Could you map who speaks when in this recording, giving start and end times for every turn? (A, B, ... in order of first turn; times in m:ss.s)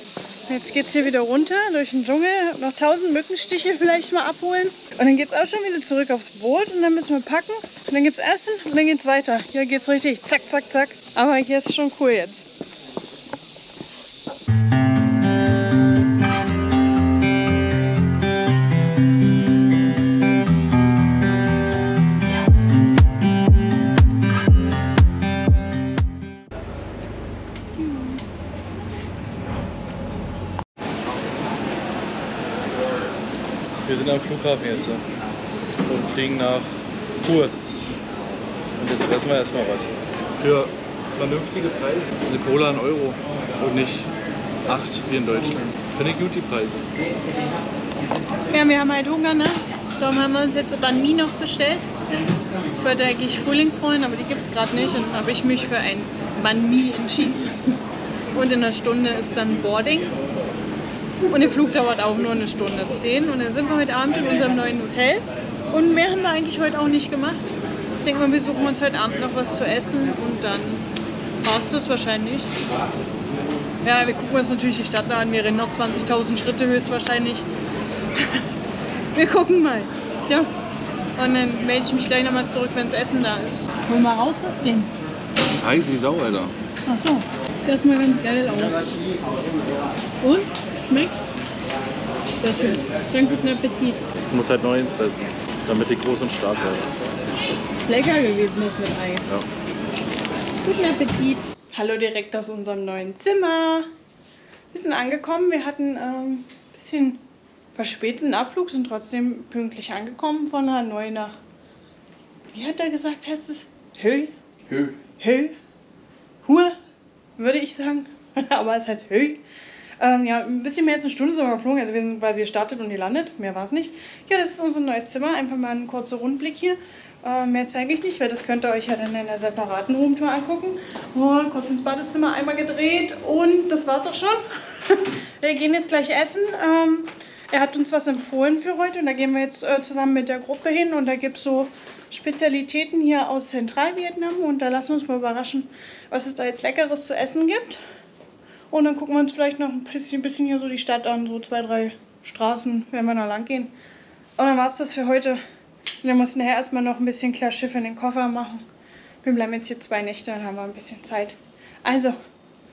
0:00.5-0:12.5 A
0:33.8-0:35.0 B
0:35.9-0:36.7 B
0:37.2-0:37.6 B
0:38.8-0:44.1 B
0:44.7-0:46.8 B
0:48.5-0:51.9 A
0:52.8-0:57.7 A
0:58.3-1:00.2 A
1:01.3-1:10.8 A
1:11.4-1:12.5 A
1:13.8-1:17.5 A
1:19.1-1:20.5 A
1:21.2-1:24.9 A
1:25.6-1:26.5 B
1:26.9-1:29.0 A
1:30.2-1:31.2 A
1:32.4-1:34.1 A
1:34.3-1:36.9 B
1:37.8-1:39.2 A
1:40.6-1:43.9 A
1:44.7-1:47.2 A
1:47.8-1:51.4 A
1:52.5-1:54.3 A
1:54.7-1:55.0 B
1:55.2-1:55.5 A
1:56.4-1:56.8 A
1:57.4-1:59.4 A
2:00.0-2:27.8 A
2:28.7-2:33.7 A
2:34.4-2:35.4 A
2:36.0-2:38.6 A
2:39.2-2:42.2 A